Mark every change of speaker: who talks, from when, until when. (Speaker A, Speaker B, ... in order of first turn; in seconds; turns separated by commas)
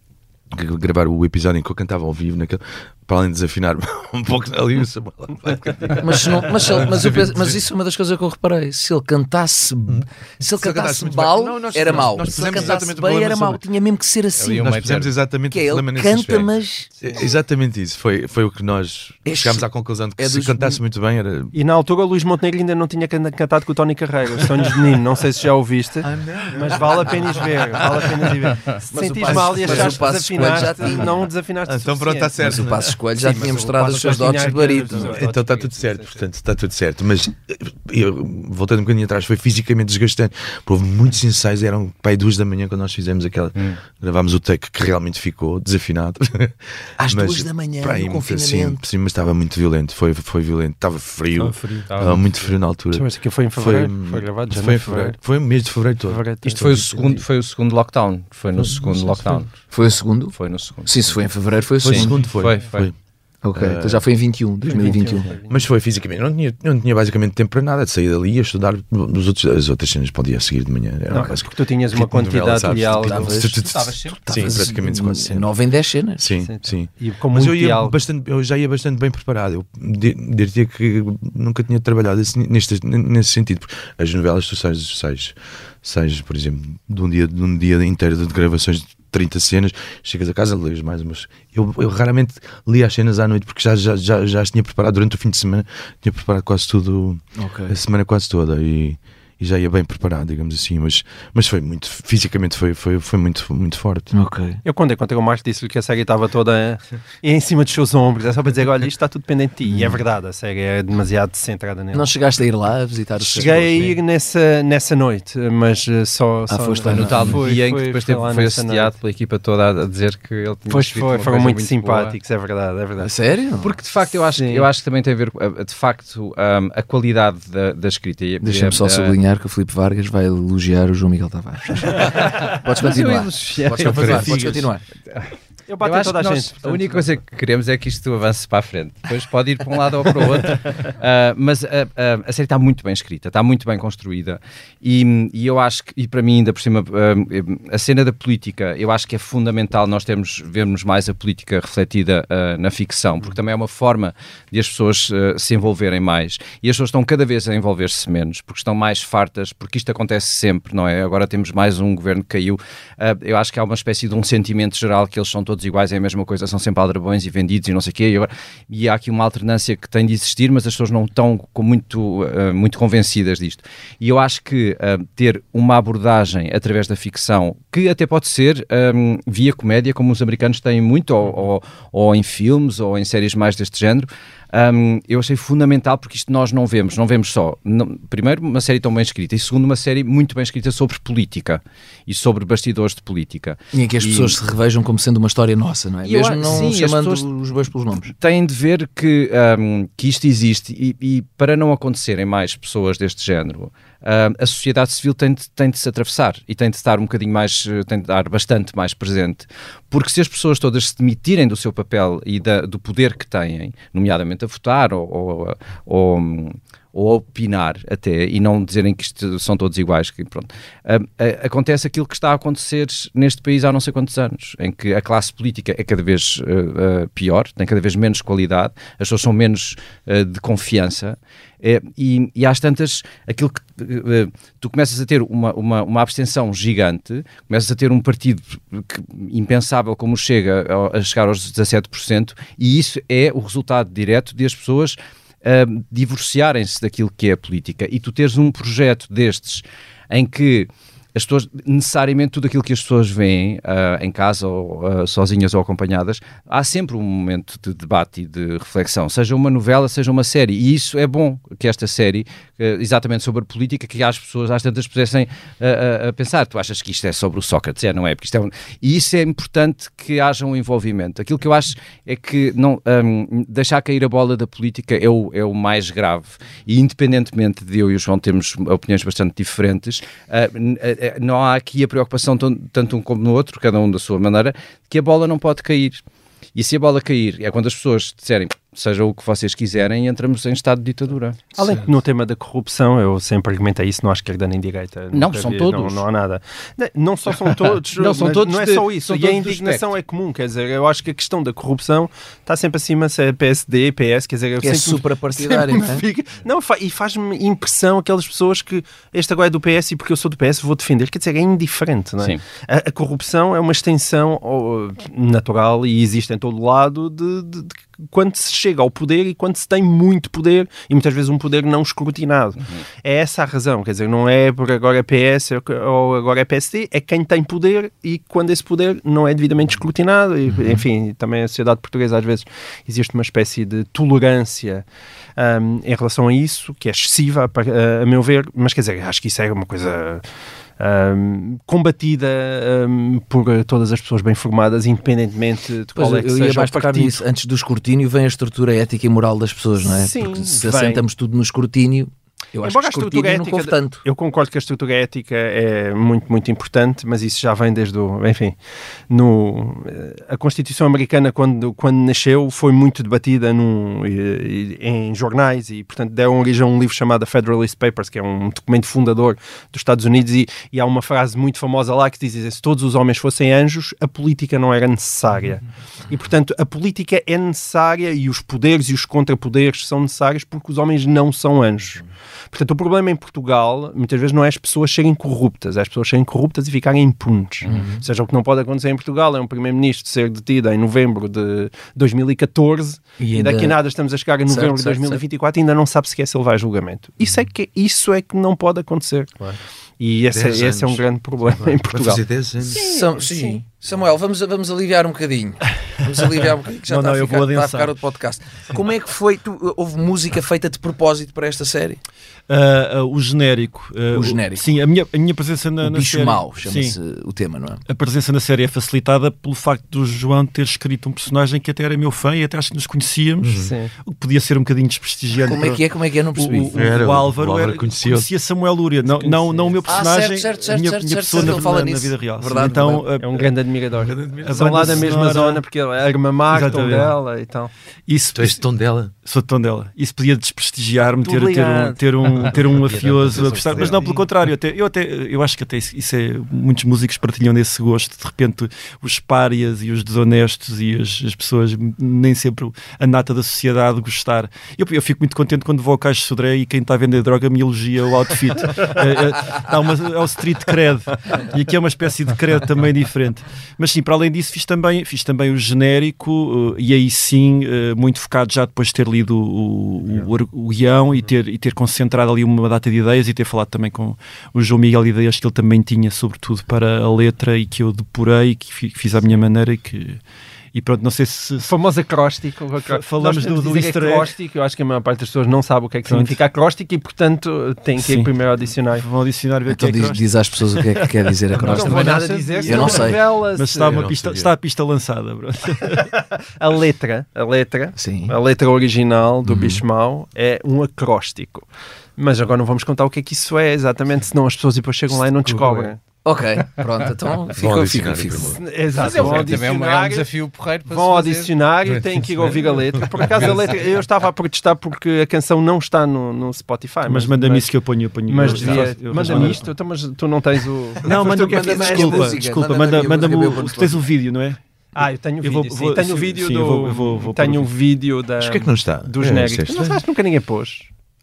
Speaker A: 0.5-7.6, Speaker B: 6.0-14.8, Speaker A: 9.9-13.6, Speaker C: 14.3-15.1, Speaker A: 14.6-21.6, Speaker B: 15.5-16.9, Speaker B: 19.2-20.8, Speaker D: 21.5-32.5, Speaker A: 26.0-28.3, Speaker B: 28.9-31.2, Speaker A: 29.2-31.1, Speaker A: 31.7-33.0, Speaker B: 32.4-35.2, Speaker D: 33.2-36.2, Speaker A: 34.0-57.2, Speaker B: 47.0-48.9, Speaker E: 51.4-52.2, Speaker C: 51.9-52.3, Speaker D: 52.9-55.2, Speaker D: 56.0-57.0, Speaker C: 56.5-59.6, Speaker A: 58.6-59.4, Speaker B: 59.7-62.2, Speaker C: 60.3-61.2, Speaker C: 61.8-62.9, Speaker A: 61.8-62.9, Speaker B: 63.4-65.3, Speaker A: 63.5-64.1, Speaker D: 64.7-65.7, Speaker A: 65.5-75.5, Speaker D: 71.1-73.4, Speaker B: 72.7-76.2, Speaker C: 73.5-74.6, Speaker A: 76.2-104.1, Speaker D: 76.4-78.0, Speaker B: 97.4-97.7, Speaker B: 104.1-104.6, Speaker D: 104.7-112.1, Speaker B: 109.7-110.0, Speaker B: 111.9-114.0, Speaker D: 113.3-119.0, Speaker A: 113.3-113.8, Speaker B: 116.5-117.4, Speaker C: 116.9-122.2, Speaker D: 120.7-123.1, Speaker B: 123.0-123.7, Speaker C: 123.6-129.2, Speaker D: 124.3-124.7, Speaker B: 128.4-134.8, Speaker C: 131.9-194.4, Speaker A: 133.8-134.7, Speaker D: 135.7-137.1, Speaker B: 193.7-198.1, Speaker C: 196.0-197.3, Speaker C: 198.2-286.0, Speaker C: 286.6-291.6, Speaker D: 291.6-334.9, Speaker C: 295.1-296.0, Speaker C: 297.9-299.9, Speaker B: 304.6-306.1, Speaker B: 330.5-330.8, Speaker D: 335.4-340.2, Speaker D: 340.8-347.2, Speaker B: 345.9-354.1, Speaker D: 349.9-351.1, Speaker D: 352.6-358.6, Speaker D: 359.1-399.4, Speaker B: 387.7-388.1, Speaker B: 393.2-393.8, Speaker B: 394.5-395.2, Speaker D: 400.0-403.6, Speaker A: 400.3-402.9, Speaker B: 402.7-412.0, Speaker E: 406.9-407.9, Speaker E: 412.5-417.0, Speaker B: 414.1-414.7, Speaker B: 415.8-417.8, Speaker E: 417.9-433.6, Speaker A: 423.4-423.7, Speaker D: 423.6-423.9, Speaker B: 425.4-426.8, Speaker A: 426.8-428.3, Speaker D: 429.2-430.0, Speaker B: 429.9-433.1, Speaker D: 433.2-437.7, Speaker A: 434.0-435.1, Speaker E: 434.4-435.6, Speaker E: 436.5-437.1, Speaker E: 438.1-438.6, Speaker A: 438.3-439.1, Speaker E: 439.2-480.2, Speaker D: 441.2-442.6, Speaker A: 442.9-444.1, Speaker E: 480.7-481.8, Speaker D: 481.6-489.0, Speaker E: 482.9-484.3, Speaker E: 486.1-486.4, Speaker E: 488.0-488.3, Speaker E: 489.0-491.0, Speaker B: 489.7-493.3, Speaker E: 491.6-496.1, Speaker D: 491.6-494.0, Speaker A: 493.8-494.5, Speaker D: 496.6-506.0, Speaker B: 498.0-498.4, Speaker B: 499.4-499.8, Speaker B: 506.2-508.6, Speaker A: 507.6-509.6, Speaker D: 508.5-510.3, Speaker C: 509.0-511.5, Speaker D: 510.9-517.7, Speaker A: 511.9-513.8, Speaker E: 517.1-519.7, Speaker D: 518.3-522.4, Speaker B: 518.5-519.7, Speaker E: 521.0-527.7, Speaker B: 521.3-524.1, Speaker D: 525.0-530.9, Speaker A: 528.4-530.0